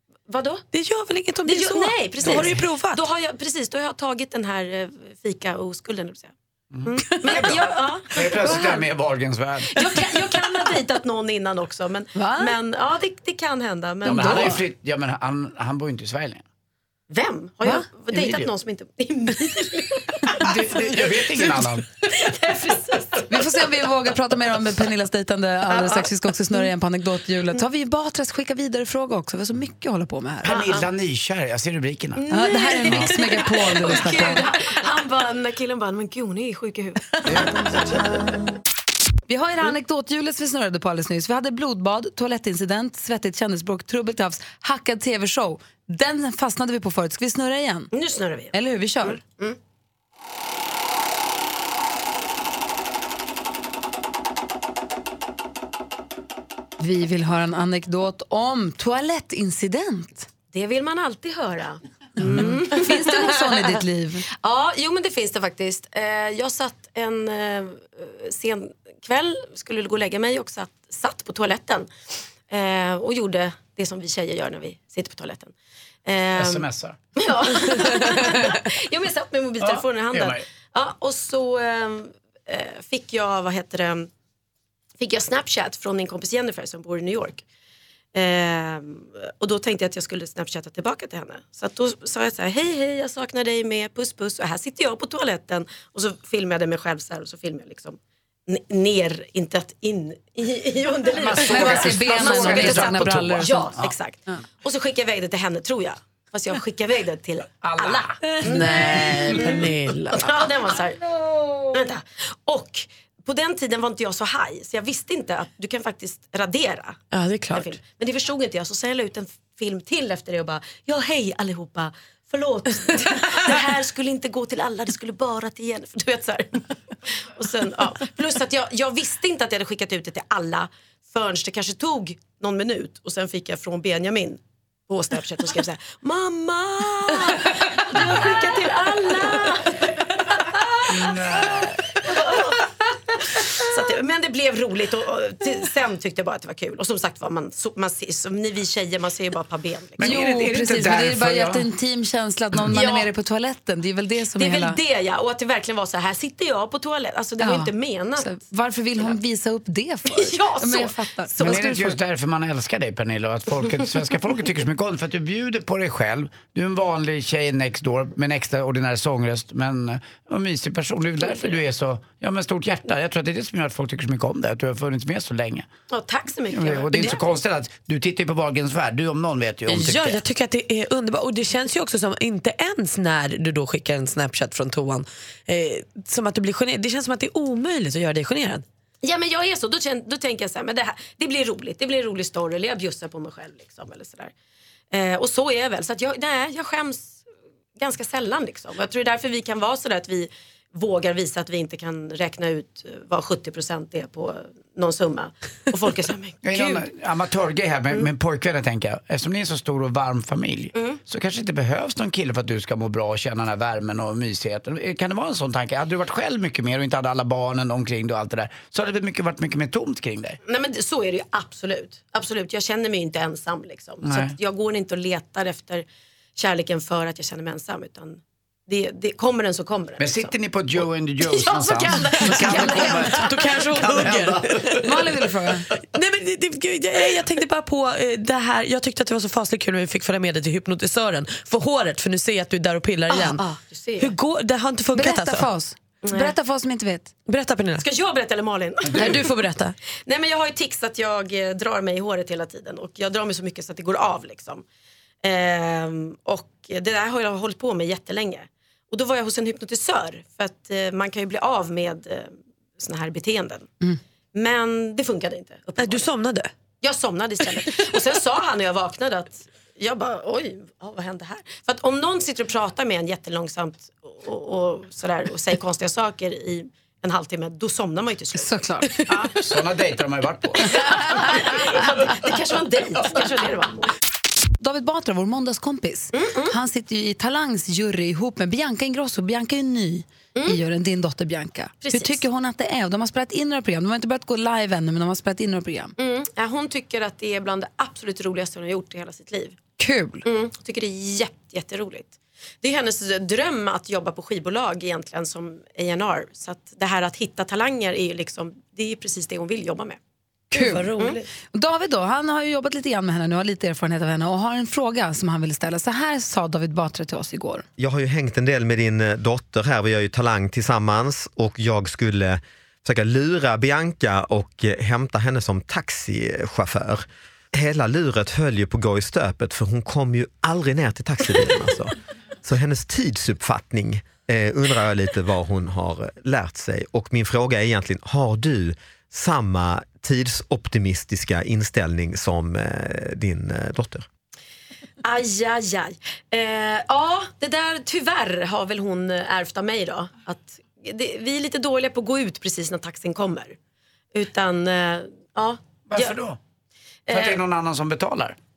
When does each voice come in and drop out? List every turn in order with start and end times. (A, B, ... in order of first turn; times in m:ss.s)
0:00.3-0:00.6 A
0:00.7-0:03.0 B
0:01.4-0:06.3 A
0:02.2-0:02.6 C
0:06.7-0:09.7 C
0:06.8-0:08.7 A
0:08.4-0:08.8 D
0:09.7-0:14.6 A
0:12.1-0:12.6 D
0:14.0-0:14.6 D
0:14.0-0:16.4 C
0:17.1-0:21.4 A
0:18.1-0:18.5 C
0:20.4-0:21.9 C
0:22.1-0:23.4 A
0:23.3-0:30.6 D
0:25.7-0:26.6 A
0:30.4-0:32.2 C
0:30.5-0:30.9 A
0:32.2-0:37.8 A
0:32.3-0:34.5 D
0:37.4-0:37.6 C
0:39.3-0:47.9 D
0:47.9-0:49.6 A
0:48.5-0:49.2 D
0:56.8-1:00.3 D
1:00.5-1:03.5 A
1:02.2-1:04.2 D
1:04.4-1:11.9 A
1:12.5-1:15.5 A
1:16.0-1:24.1 A
1:16.4-1:17.0 C
1:19.6-1:20.4 C
1:25.0-1:27.4 A
1:28.1-1:51.0 A
1:41.2-1:43.7 D
1:41.2-1:43.9 C
1:47.6-1:48.3 C
1:48.3-1:50.3 B
1:51.7-1:57.0 A
1:57.1-1:57.8 B
1:57.5-2:06.6 A
2:07.4-2:19.6 A
2:20.5-2:21.4 A
2:20.9-2:21.8 C
2:22.0-2:22.6 A
2:23.6-2:30.2 A
2:30.0-2:31.7 C
2:30.0-2:34.8 D
2:32.6-2:33.1 A
2:34.4-2:38.3 A
2:37.4-2:41.9 D
2:40.0-2:41.8 A
2:41.4-2:55.7 C
2:55.9-2:57.2 A
2:56.5-3:00.2 C
2:59.7-3:08.6 B
3:09.0-3:14.3 A
3:14.9-3:17.2 A
3:17.8-3:26.8 A
3:26.4-3:40.4 C
3:40.4-3:45.8 A
3:44.0-3:44.3 C
3:46.4-3:50.3 A
3:50.0-3:53.3 C
3:51.2-3:54.3 A
3:52.2-3:52.6 D
3:53.0-3:54.9 B
3:53.8-3:54.4 C
3:54.8-3:55.7 D
3:55.9-4:03.4 B
4:03.1-4:04.1 A
4:04.0-4:05.5 B
4:04.9-4:07.1 D
4:06.0-4:06.3 A
4:07.3-4:07.8 B
4:07.8-4:09.4 A
4:09.0-4:09.7 B
4:10.1-4:14.6 A
4:15.2-4:23.7 A
4:24.3-4:26.1 A
4:25.8-4:26.5 B
4:26.8-4:39.3 A
4:38.3-4:39.0 D
4:39.4-4:40.7 C
4:40.6-4:43.9 A
4:44.6-4:55.9 D
4:46.1-4:46.5 A
4:51.8-4:52.2 A
4:56.0-4:59.6 A
4:59.8-5:00.2 D
5:00.2-5:10.0 A
5:10.5-5:11.0 D
5:10.5-5:11.2 B
5:10.9-5:11.2 A
5:11.5-5:17.6 D
5:17.8-5:31.9 E
5:32.4-5:44.0 E
5:45.0-5:53.6 A
5:54.1-5:56.2 A
5:55.9-5:56.4 C
5:57.1-5:57.4 A
5:57.1-5:58.4 C